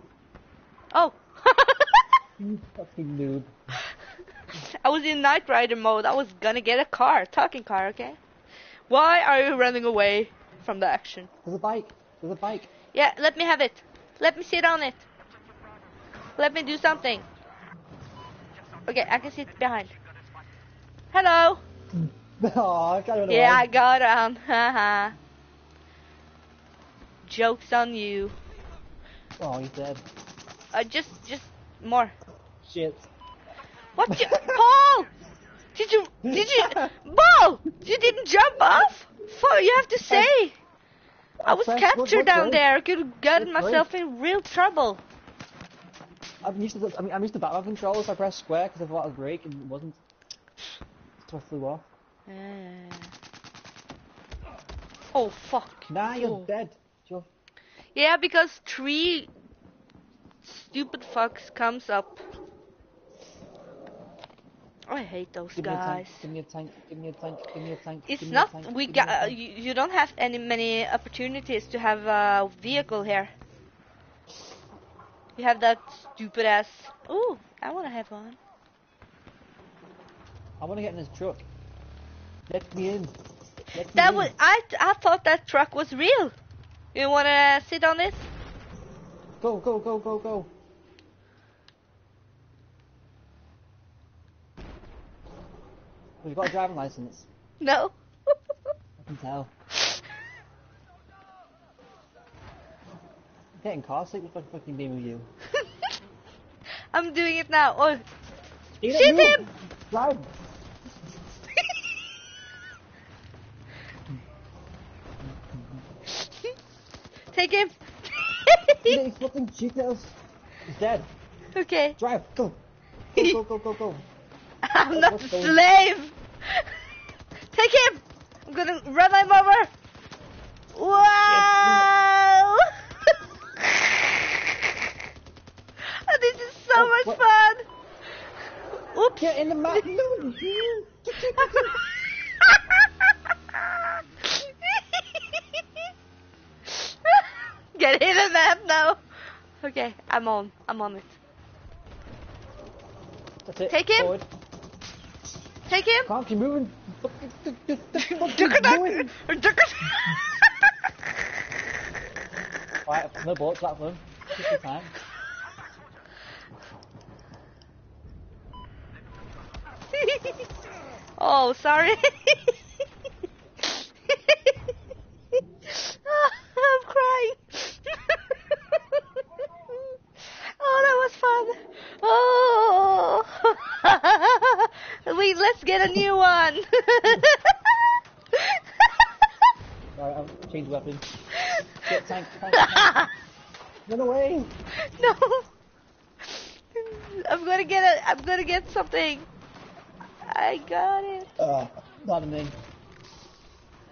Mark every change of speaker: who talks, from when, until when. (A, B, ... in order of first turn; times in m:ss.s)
0:00.9-0:02.1 A
0:02.4-0:03.5 B
0:04.5-0:08.2 A
0:08.9-0:11.3 A
0:11.4-0:12.7 B
0:12.9-0:15.0 A
0:16.4-0:17.3 A
0:18.9-0:19.9 A
0:21.1-0:21.6 A
0:22.0-0:23.7 B
0:23.3-0:25.1 A
0:27.2-0:28.4 A
0:29.4-0:30.0 B
0:30.7-0:32.1 A
0:32.6-0:33.0 B
0:34.0-0:35.1 A
0:34.1-0:34.6 B
0:35.7-0:40.6 A
0:36.2-0:36.9 B
0:40.0-0:40.3 B
0:41.4-0:42.6 B
0:41.4-0:45.0 A
0:43.3-0:43.9 B
0:46.4-0:50.0 B
0:51.2-0:51.9 B
0:52.3-0:53.1 A
0:55.1-0:56.5 A
0:55.9-0:57.3 B
0:57.9-0:59.3 A
1:00.4-1:02.2 A
1:04.9-1:06.2 A
1:05.6-1:09.4 B
1:08.0-1:13.3 A
1:15.4-1:18.4 A
1:20.6-1:21.4 B
1:22.5-1:23.1 B
1:23.7-1:24.3 B
1:23.8-1:26.3 A
1:26.9-1:28.3 A
1:29.4-1:30.5 B
1:36.2-1:37.3 B
1:37.6-1:38.5 A
1:39.0-1:39.5 B
1:43.6-1:45.3 B
1:45.6-1:45.9 A
1:46.9-1:48.0 A
1:48.8-1:50.3 B
1:48.9-1:49.5 A
1:55.5-1:55.8 B
1:56.1-1:56.5 A
1:57.3-1:59.0 A
1:58.8-2:01.1 B
2:01.5-2:02.0 A
2:02.0-2:02.6 B
2:03.1-2:04.0 B
2:04.6-2:06.7 A
2:04.9-2:05.6 B
2:07.5-2:09.7 A
2:10.7-2:14.3 A
2:11.2-2:11.9 B
2:15.8-2:17.6 A
2:16.7-2:17.2 B
2:18.7-2:19.8 A
2:19.2-2:21.8 B
2:21.2-2:25.9 A
2:26.7-2:29.0 A
2:29.6-2:31.1 A
2:33.4-2:34.3 B
2:33.7-2:34.2 A
2:35.7-2:36.1 A
2:36.0-2:39.2 B
2:38.0-2:40.7 A
2:42.8-2:44.9 B
2:49.9-2:50.4 A
2:51.2-2:52.6 A
2:53.6-2:54.6 A
2:55.6-2:59.8 A
3:00.4-3:07.8 A
3:08.3-3:09.3 A
3:09.9-3:11.1 B
3:11.4-3:11.9 A
3:11.8-3:13.0 B
3:12.5-3:13.1 A
3:13.8-3:14.5 B
3:14.8-3:15.5 A
3:16.2-3:19.3 A
3:20.2-3:21.3 A
3:21.4-3:22.5 B